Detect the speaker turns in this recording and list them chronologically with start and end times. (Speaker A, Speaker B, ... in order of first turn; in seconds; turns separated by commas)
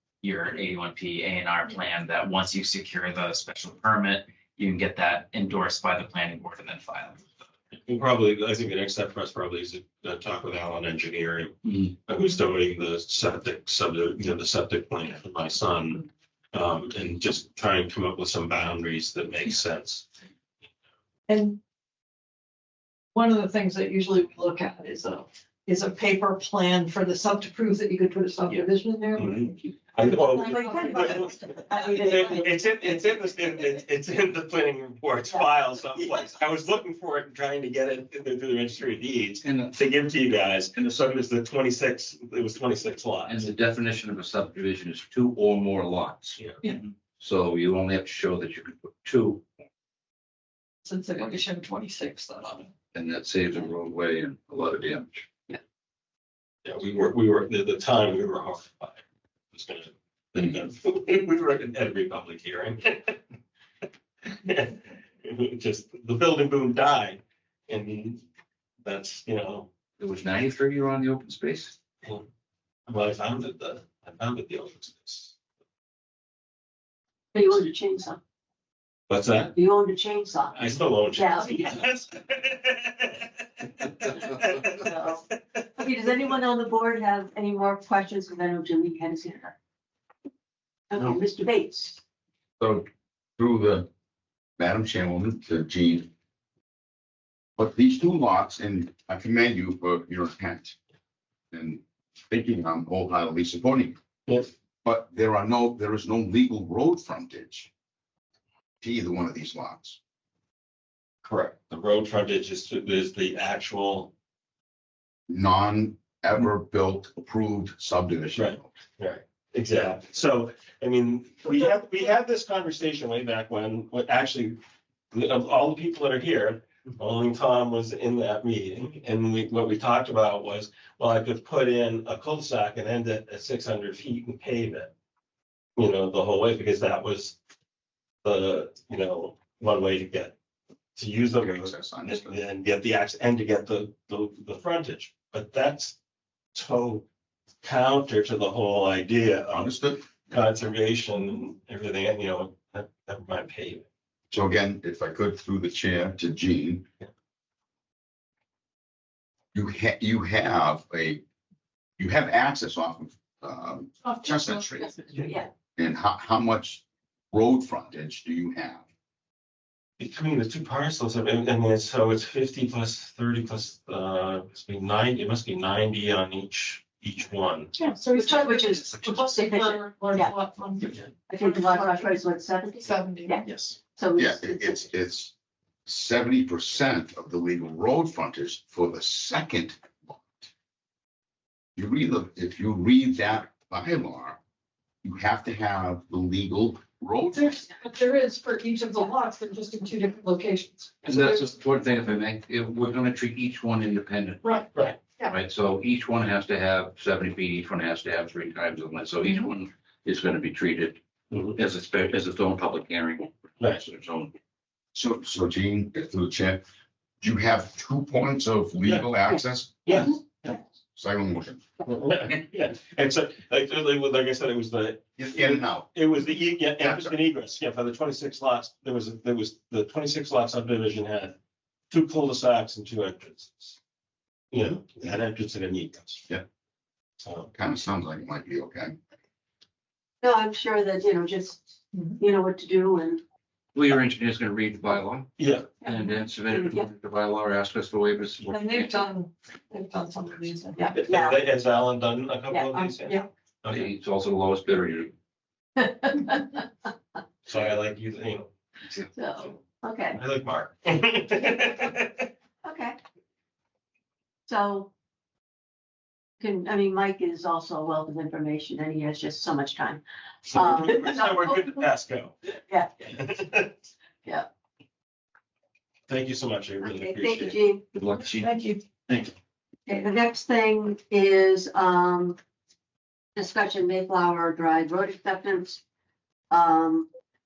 Speaker A: 0.2-7.2, Speaker B: 7.9-20.1, Speaker C: 21.3-21.6, Speaker C: 23.1-32.4, Speaker B: 29.1-43.4, Speaker D: 30.3-32.4, Speaker E: 39.4-39.7, Speaker E: 43.2-49.5, Speaker C: 50.8-52.7, Speaker E: 52.9-55.2, Speaker B: 56.6-59.0, Speaker B: 59.5-63.2, Speaker B: 64.3-68.2, Speaker B: 68.8-69.7, Speaker E: 70.0-71.7, Speaker B: 72.9-75.3, Speaker D: 77.3-78.2, Speaker B: 79.1-79.5, Speaker D: 79.5-81.8, Speaker B: 80.5-84.8, Speaker D: 84.6-89.5, Speaker D: 90.9-92.0, Speaker F: 92.6-92.9, Speaker F: 93.4-93.9, Speaker F: 94.6-96.1, Speaker F: 97.6-100.8, Speaker F: 101.5-104.0, Speaker F: 104.8-107.7, Speaker F: 108.8-110.0, Speaker B: 111.2-114.1, Speaker F: 115.3-118.7, Speaker B: 118.3-124.6, Speaker B: 125.1-134.9, Speaker B: 135.8-137.4, Speaker B: 138.2-140.3, Speaker B: 140.9-145.9, Speaker F: 141.4-142.4, Speaker B: 146.5-147.0, Speaker B: 147.6-153.8, Speaker F: 149.5-150.0, Speaker F: 154.3-156.8, Speaker F: 159.5-161.2, Speaker F: 162.0-165.0, Speaker D: 164.8-165.5, Speaker F: 165.8-168.8, Speaker B: 170.0-177.7, Speaker C: 177.8-182.1, Speaker D: 178.1-180.4, Speaker D: 181.3-184.8, Speaker C: 182.8-183.7, Speaker F: 184.2-185.3, Speaker F: 185.8-190.5, Speaker F: 191.8-194.4, Speaker F: 195.0-197.7, Speaker C: 197.4-201.5, Speaker E: 201.0-204.6, Speaker C: 204.4-205.3, Speaker B: 204.7-205.0, Speaker E: 205.2-214.3, Speaker F: 214.9-216.6, Speaker F: 217.2-220.1, Speaker B: 218.8-219.1, Speaker B: 219.8-220.5, Speaker F: 220.9-221.6, Speaker B: 221.8-231.3, Speaker F: 225.2-225.9, Speaker F: 226.8-227.1, Speaker B: 231.9-233.8, Speaker B: 234.5-236.2, Speaker B: 237.2-237.5, Speaker F: 237.5-238.9, Speaker D: 240.2-243.2, Speaker E: 243.7-245.3, Speaker B: 245.4-245.7, Speaker E: 245.8-249.1, Speaker D: 245.8-246.8, Speaker C: 248.4-251.0, Speaker D: 250.8-251.4, Speaker B: 251.0-253.9, Speaker D: 252.5-253.2, Speaker E: 253.7-255.1, Speaker D: 255.8-256.4, Speaker B: 257.4-258.5, Speaker D: 259.1-260.2, Speaker B: 260.1-262.3, Speaker D: 262.6-263.0, Speaker D: 264.5-264.9, Speaker D: 266.4-271.8, Speaker B: 270.4-272.3, Speaker B: 273.0-273.7, Speaker B: 276.1-277.6, Speaker D: 276.8-277.8, Speaker E: 277.9-278.5, Speaker C: 278.4-278.8, Speaker D: 279.9-282.4, Speaker D: 283.4-285.8, Speaker D: 286.5-287.1